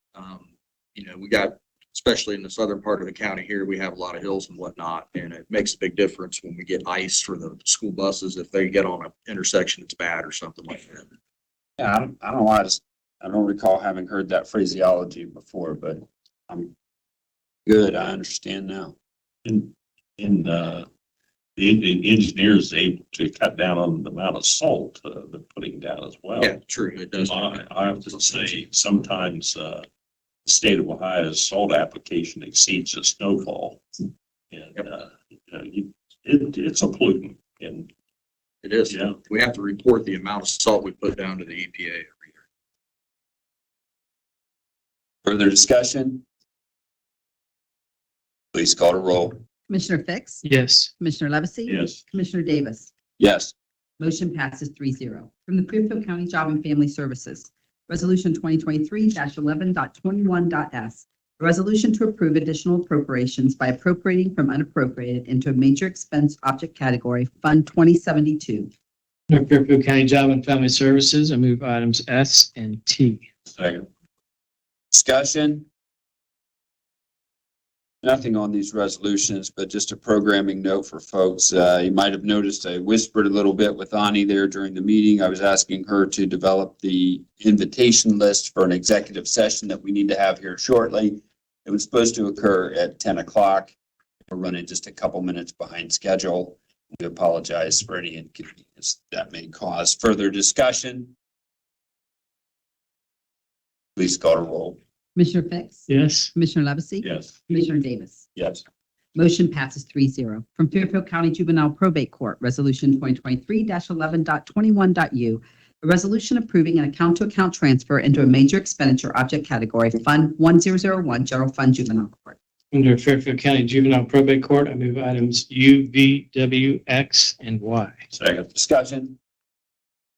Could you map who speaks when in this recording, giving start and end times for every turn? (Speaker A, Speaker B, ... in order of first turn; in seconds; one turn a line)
Speaker A: 0.1-11.1
Speaker B: 11.8-16.7
Speaker B: 17.6-18.9
Speaker C: 19.4-20.9
Speaker C: 21.6-26.5
Speaker A: 26.4-28.2
Speaker C: 27.1-29.8
Speaker C: 30.4-37.9
Speaker A: 38.6-42.4
Speaker C: 38.9-39.2
Speaker B: 45.2-46.2
Speaker B: 48.5-49.4
Speaker D: 49.7-50.4
Speaker E: 50.4-50.9
Speaker D: 51.0-52.9
Speaker C: 51.6-52.0
Speaker B: 53.2-53.5
Speaker D: 54.0-68.7
Speaker E: 69.3-73.2
Speaker C: 73.5-73.8
Speaker B: 74.9-75.7
Speaker B: 78.0-93.7
Speaker B: 94.3-101.1
Speaker B: 104.0-104.8
Speaker D: 105.2-108.2
Speaker E: 105.9-106.3
Speaker C: 107.0-107.3
Speaker B: 108.3-108.6
Speaker D: 109.1-122.4
Speaker E: 122.7-128.1
Speaker C: 128.1-128.5
Speaker B: 128.5-129.2